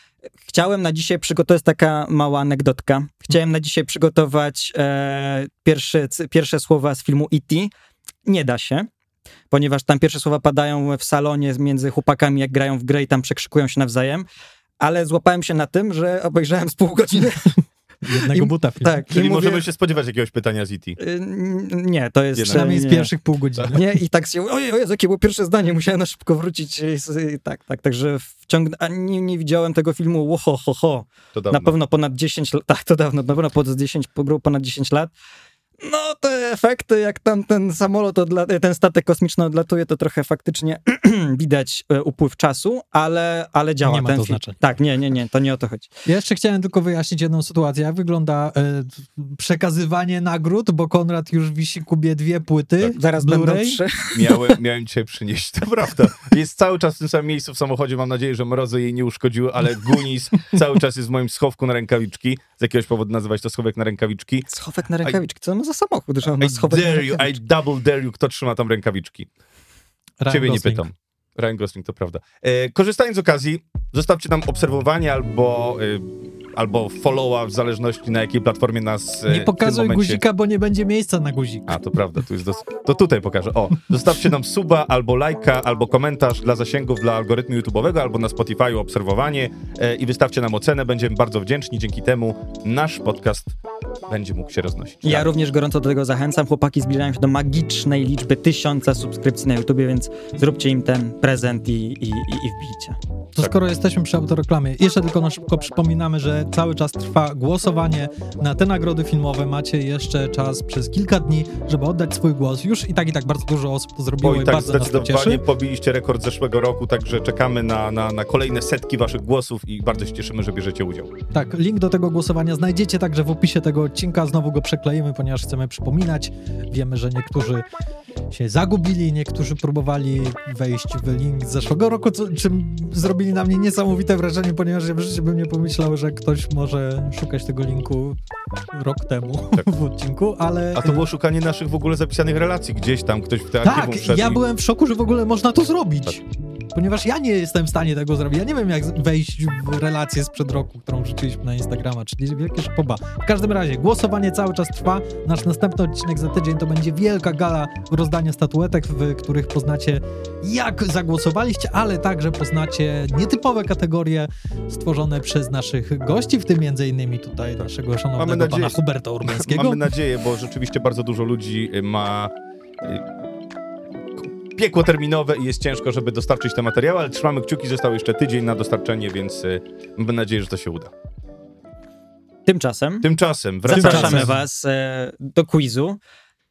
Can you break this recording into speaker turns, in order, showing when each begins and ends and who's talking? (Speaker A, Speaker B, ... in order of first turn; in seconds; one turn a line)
Speaker A: 0.5-7.7
Speaker A: 8.3-8.9
Speaker A: 9.5-14.3
Speaker A: 14.8-17.6
Speaker B: 18.0-19.3
Speaker A: 18.2-19.6
Speaker C: 19.1-21.0
Speaker A: 21.0-23.1
Speaker C: 22.3-22.8
Speaker B: 22.5-24.0
Speaker A: 23.7-35.1
Speaker C: 31.3-31.7
Speaker A: 35.8-45.9
Speaker B: 43.8-44.6
Speaker B: 46.1-53.8
Speaker A: 52.9-54.6
Speaker C: 54.1-64.5
Speaker A: 64.5-67.4
Speaker C: 66.4-69.3
Speaker B: 70.2-70.9
Speaker C: 70.3-80.2
Speaker B: 79.3-81.8
Speaker C: 81.7-95.3
Speaker A: 95.0-103.0
Speaker B: 103.3-115.4
Speaker C: 114.2-121.2
Speaker B: 121.3-127.7
Speaker B: 128.3-138.2
Speaker B: 138.7-141.1
Speaker C: 140.8-144.4
Speaker B: 143.6-146.2
Speaker B: 146.7-169.8
Speaker C: 168.2-173.1
Speaker C: 174.2-180.9
Speaker A: 182.5-183.1
Speaker C: 183.0-184.3
Speaker A: 183.7-186.0
Speaker B: 183.7-184.3